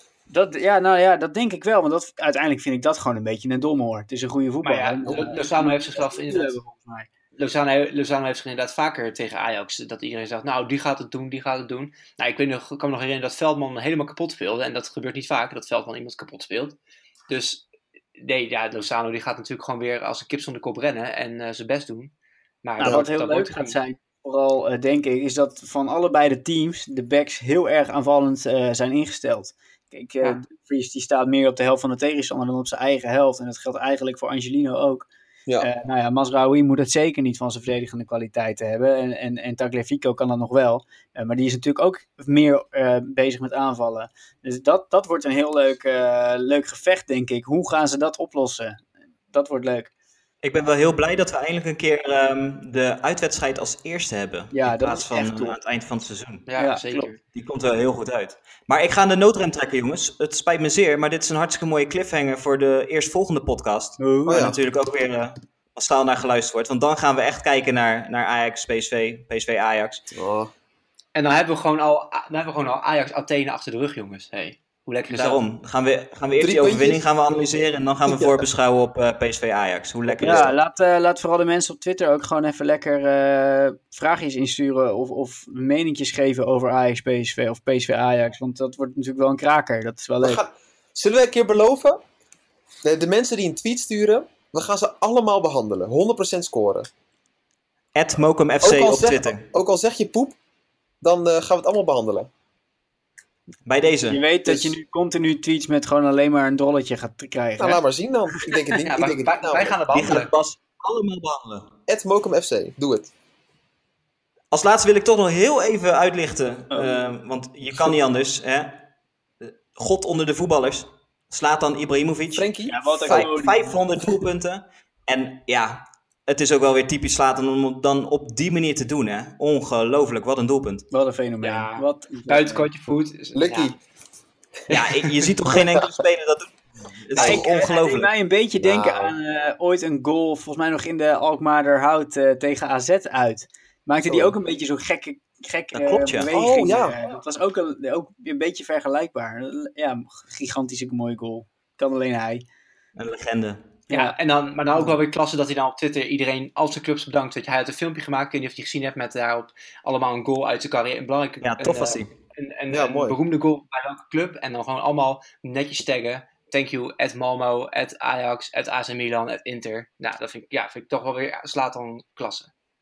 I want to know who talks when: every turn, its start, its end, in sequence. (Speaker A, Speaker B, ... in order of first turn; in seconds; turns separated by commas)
Speaker A: 0.3-7.1, Speaker B: 4.6-6.6, Speaker C: 5.1-5.3, Speaker B: 7.3-16.8, Speaker B: 17.3-22.1, Speaker B: 22.6-23.8, Speaker C: 22.8-23.1, Speaker A: 22.8-35.0, Speaker A: 35.6-49.9, Speaker D: 50.4-56.5, Speaker A: 54.5-55.5, Speaker B: 56.5-57.2, Speaker A: 56.6-57.1, Speaker D: 57.3-70.1, Speaker A: 64.0-64.5, Speaker C: 64.2-64.5, Speaker C: 70.1-70.5, Speaker B: 71.1-75.4, Speaker D: 75.1-80.5, Speaker C: 76.4-77.0, Speaker C: 78.1-78.4, Speaker C: 80.1-80.5, Speaker A: 80.2-90.4, Speaker C: 90.2-92.0, Speaker C: 92.8-96.9, Speaker D: 97.9-99.4, Speaker C: 98.6-100.3, Speaker C: 101.0-102.3, Speaker D: 103.7-104.2, Speaker A: 104.1-107.8, Speaker C: 104.4-104.7, Speaker C: 107.6-110.1, Speaker B: 108.8-110.3, Speaker D: 109.9-111.7, Speaker C: 111.9-113.1, Speaker D: 114.5-118.8, Speaker A: 116.7-117.0, Speaker D: 119.4-130.9, Speaker C: 122.3-123.3, Speaker A: 122.7-123.8, Speaker A: 130.9-132.7, Speaker B: 131.4-133.8, Speaker C: 133.3-133.8, Speaker D: 134.7-138.1, Speaker C: 137.1-137.7, Speaker A: 137.1-152.4, Speaker C: 138.6-139.2, Speaker C: 144.0-144.3, Speaker D: 145.7-146.3, Speaker C: 146.3-147.0, Speaker D: 152.9-153.6, Speaker A: 153.9-154.1, Speaker B: 153.9-172.5, Speaker D: 161.4-162.1, Speaker C: 162.7-163.2